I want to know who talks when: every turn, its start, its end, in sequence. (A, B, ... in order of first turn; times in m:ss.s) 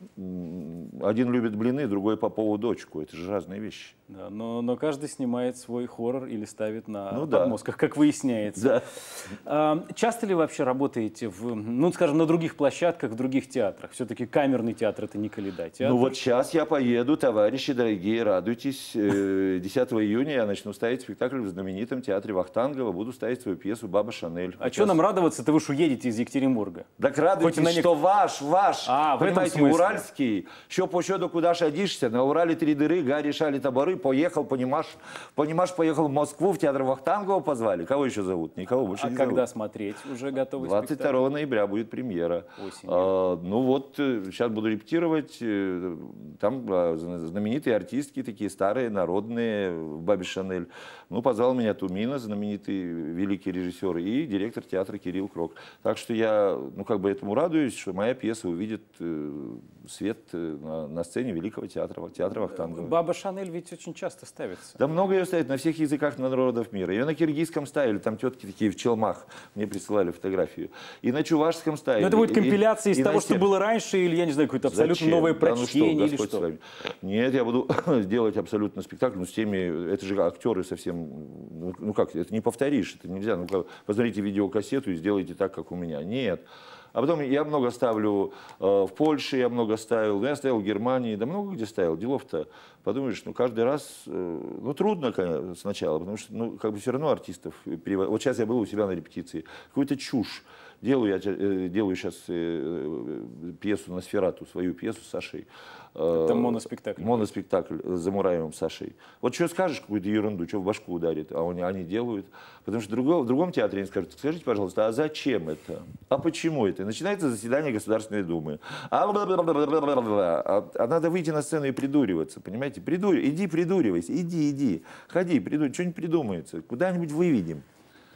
0:00.2-0:03.9 A
0:04.1-0:16.1 B
0:07.1-0:07.6 A
0:08.6-0:08.8 A
0:15.8-0:25.0 A
0:24.6-0:26.8 B
0:27.0-0:39.4 A
0:27.4-0:27.9 B
0:28.8-0:30.0 B
0:38.9-0:41.2 B
0:40.6-1:02.9 A
0:42.6-0:43.1 B
1:02.4-1:04.8 B
1:04.8-1:13.5 A
1:12.0-1:16.4 B
1:14.6-2:07.6 A
1:46.1-1:47.3 B